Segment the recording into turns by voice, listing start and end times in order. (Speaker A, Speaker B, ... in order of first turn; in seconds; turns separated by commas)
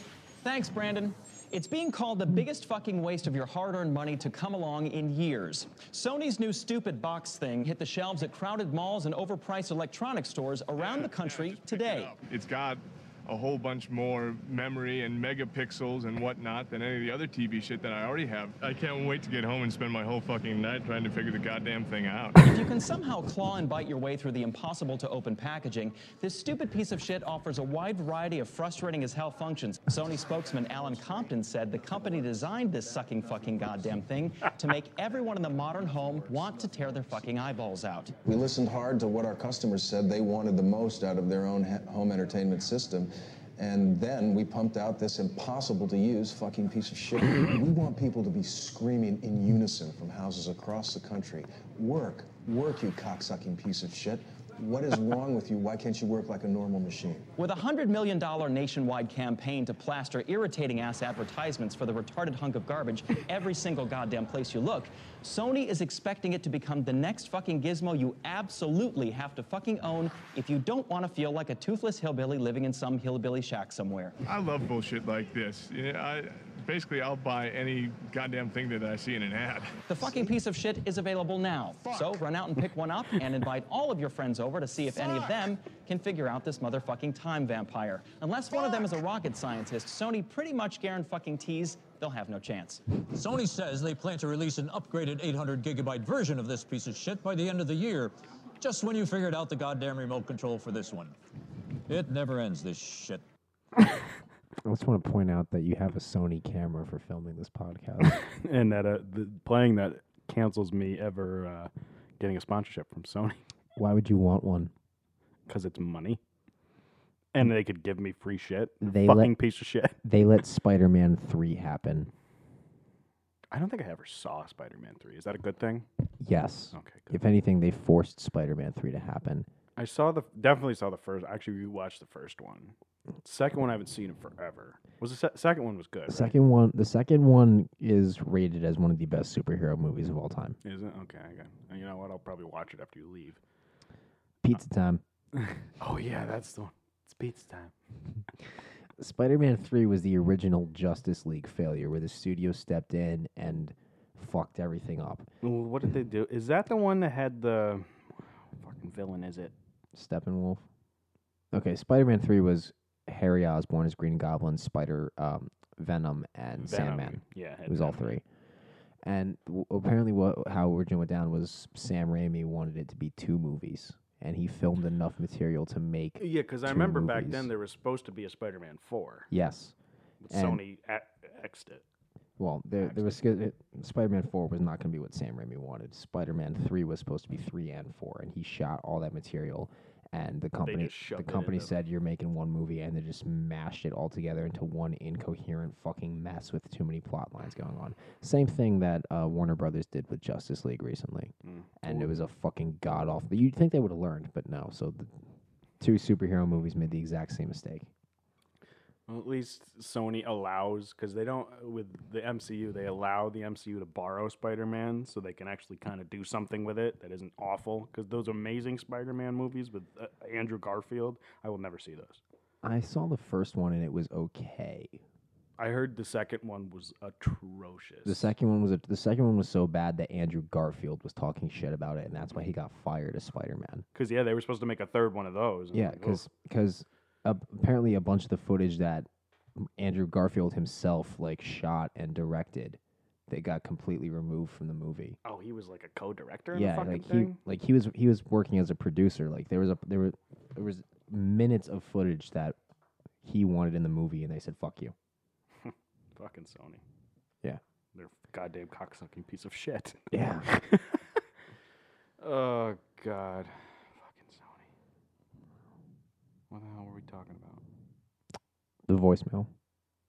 Speaker A: 0.4-12.2, Speaker B: 10.8-22.4, Speaker A: 22.4-38.1, Speaker C: 38.2-57.3, Speaker A: 57.4-74.2, Speaker B: 74.2-79.8, Speaker A: 79.9-92.8, Speaker D: 93.1-101.2, Speaker D: 101.9-103.2, Speaker E: 104.6-108.2, Speaker F: 108.2-113.4, Speaker E: 113.8-114.7, Speaker F: 115.5-116.2, Speaker F: 117.3-120.0, Speaker E: 118.8-119.3, Speaker E: 120.0-122.1, Speaker F: 123.5-125.9, Speaker E: 126.2-129.5, Speaker F: 126.7-127.2, Speaker F: 129.8-136.3, Speaker E: 136.1-140.6, Speaker F: 140.6-143.4, Speaker E: 144.4-145.0, Speaker F: 145.4-147.7, Speaker E: 149.0-155.3, Speaker F: 155.4-159.5, Speaker E: 159.9-160.6, Speaker E: 161.5-168.2, Speaker F: 166.6-168.1, Speaker E: 169.0-177.5, Speaker F: 176.2-179.3, Speaker E: 179.3-179.7, Speaker F: 180.2-181.8, Speaker E: 180.3-180.6, Speaker E: 182.4-205.1, Speaker F: 182.8-183.3, Speaker F: 190.6-191.8, Speaker F: 201.4-202.1, Speaker E: 205.8-207.9, Speaker F: 209.1-222.2, Speaker E: 222.6-225.0, Speaker F: 225.6-228.3, Speaker E: 228.1-233.8, Speaker F: 233.9-236.2, Speaker E: 235.7-245.2, Speaker F: 245.2-247.4, Speaker E: 246.5-252.6, Speaker E: 253.2-254.9, Speaker F: 255.6-256.8, Speaker F: 257.9-261.1, Speaker E: 260.1-260.5, Speaker F: 262.2-264.7, Speaker F: 266.5-267.6, Speaker E: 268.9-269.5